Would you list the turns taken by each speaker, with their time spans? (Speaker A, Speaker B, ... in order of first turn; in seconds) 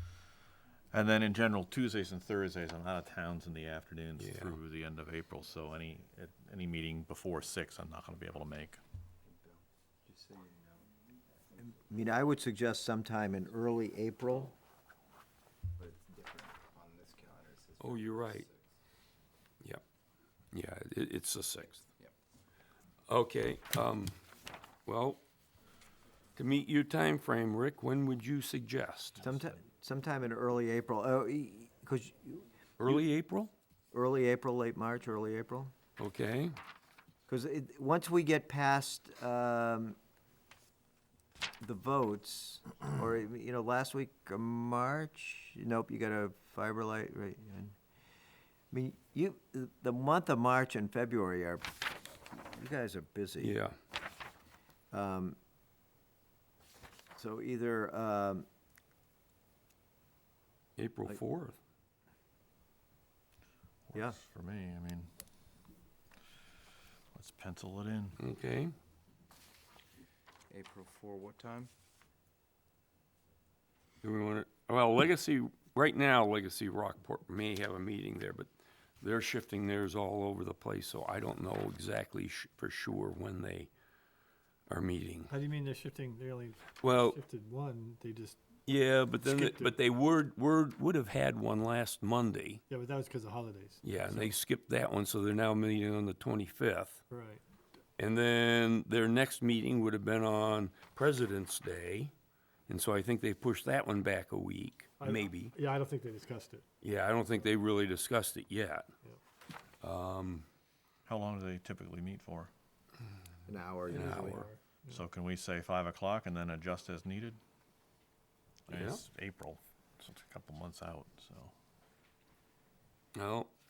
Speaker A: 0.9-8.8, 63.9-65.1, 67.1-68.2, 111.0-112.5, 114.9-117.4, 118.7-121.5
Speaker B: 4.2-4.6, 17.8-18.4, 20.5-21.8, 23.1-24.1, 24.9-25.2, 26.4-29.3, 32.8-33.5, 36.0-36.5, 53.4-53.7, 60.8-61.5, 68.2-68.7, 74.0-78.5, 79.0-83.7, 84.7-85.3, 86.8-87.2, 88.7-92.6, 93.8-97.0, 98.0-102.1, 102.7-105.5, 106.8-108.8, 109.8-110.5, 113.9-114.5, 118.7-119.0, 123.1-123.5
Speaker C: 9.2-11.7, 15.8-18.7, 21.8-22.1, 70.5-71.7
Speaker D: 11.6-14.5, 29.2-33.0, 33.9-35.7, 37.3-40.0, 41.6-47.7, 48.7-51.8, 52.3-53.6, 54.9-55.4, 57.1-58.5, 113.5-114.5
Speaker E: 85.3-88.4, 89.1-89.8, 92.7-94.3, 97.1-97.4, 105.0-106.6, 114.1-115.0